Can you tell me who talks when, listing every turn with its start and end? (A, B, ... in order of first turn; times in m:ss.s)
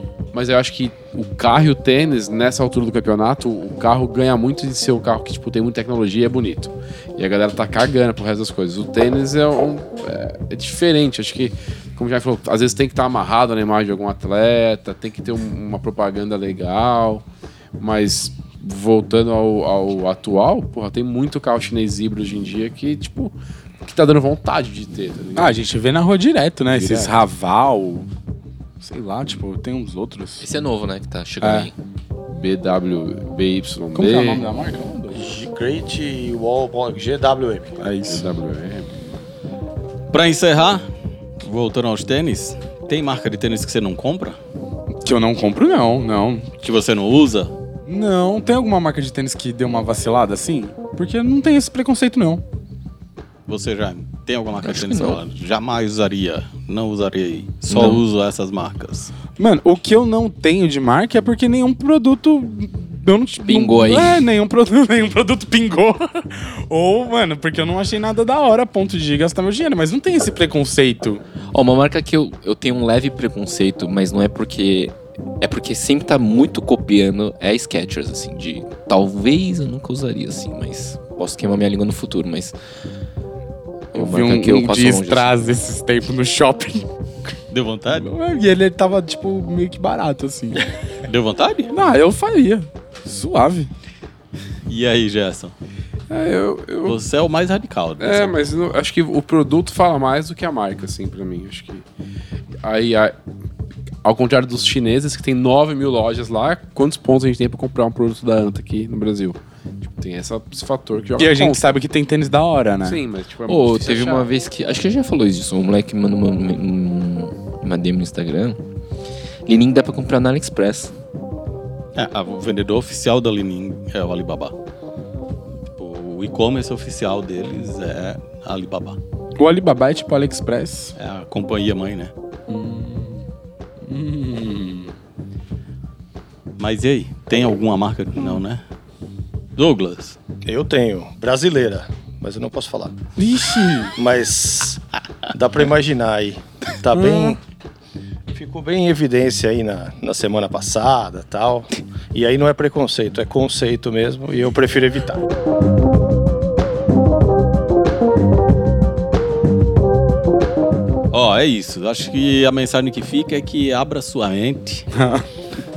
0:00.3-0:17.2 A
0:17.8-0:23.3 A
0:23.8-0:25.6 A
0:25.4-0:28.1 B
0:26.7-0:27.2 A
0:28.8-0:30.4 B
0:30.4-0:31.7 C
0:31.4-0:31.7 B
0:32.3-0:34.4 A
0:33.9-0:35.3 B
0:35.1-0:37.8 D
0:37.8-0:38.2 B
0:38.1-0:38.9 A
0:40.1-0:40.9 E
0:41.4-0:44.4 E
0:44.9-0:46.5 B
0:46.6-0:47.5 E
0:47.8-0:52.4 B
0:53.5-0:59.1 E
0:54.6-0:55.2 C
0:57.7-0:58.0 C
0:59.4-1:11.2 B
1:03.4-1:04.2 C
1:11.5-1:22.5 C
1:23.9-1:25.3 C
1:23.9-1:26.9 B
1:27.5-1:28.1 E
1:28.0-1:30.7 B
1:31.0-1:31.7 E
1:31.7-1:33.7 B
1:34.7-1:35.5 E
1:36.1-1:37.0 A
1:36.8-1:38.4 E
1:38.0-1:41.8 A
1:42.6-1:43.2 A
1:44.0-1:51.8 A
1:51.2-1:53.0 B
1:52.8-1:54.3 A
1:53.5-1:58.6 C
1:59.4-2:00.9 C
2:01.9-2:04.5 E
2:05.8-2:09.0 E
2:09.4-2:10.9 B
2:11.0-2:12.1 E
2:12.5-2:13.2 B
2:13.8-2:14.9 B
2:16.6-2:18.6 E
2:19.6-2:20.2 E
2:20.4-2:23.0 D
2:23.2-2:24.0 B
2:24.0-2:27.4 D
2:26.9-2:27.4 B
2:28.3-2:35.3 D
2:41.1-2:44.9 E
2:44.9-2:45.2 B